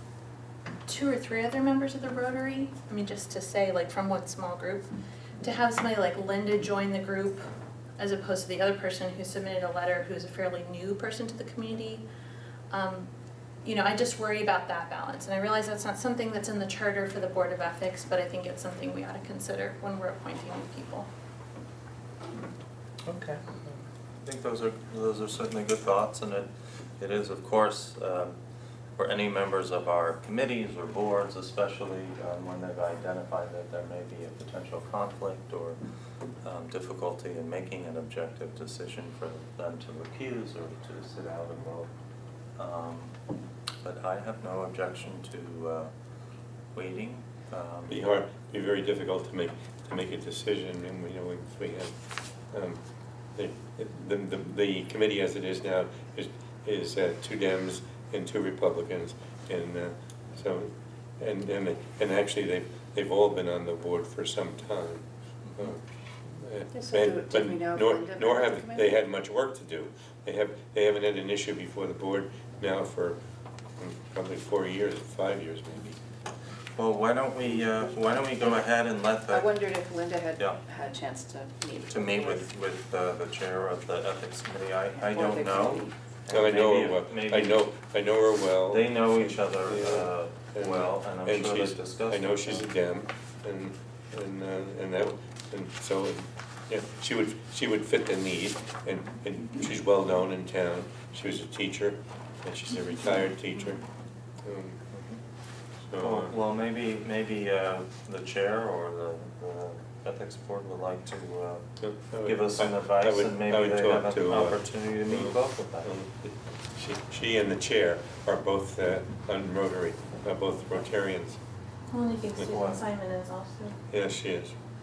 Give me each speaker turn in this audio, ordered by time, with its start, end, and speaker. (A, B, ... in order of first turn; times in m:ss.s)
0:00.8-0:04.9 A
0:05.4-0:07.4 A
0:08.0-0:12.0 A
0:12.7-0:13.1 A
0:13.6-0:21.1 A
0:23.0-0:28.4 B
0:29.0-0:35.8 B
0:36.4-0:41.9 B
0:42.6-0:43.1 B
0:43.8-0:45.9 B
0:46.7-0:48.0 B
0:47.9-0:51.9 C
0:52.5-0:52.8 C
0:53.3-1:05.0 C
1:05.6-1:13.2 C
1:06.7-1:08.9 D
1:13.8-1:16.0 C
1:16.7-1:19.6 B
1:19.3-1:22.4 D
1:20.4-1:20.6 B
1:21.9-1:27.6 B
1:24.9-1:25.9 D
1:26.3-1:43.8 C
1:28.7-1:32.7 B
1:44.4-1:44.8 C
1:44.9-1:45.2 B
1:45.8-1:46.3 C
1:46.0-1:51.6 B
1:51.8-2:01.4 C
1:52.2-1:55.9 B
2:01.9-2:03.8 A
2:03.9-2:04.6 C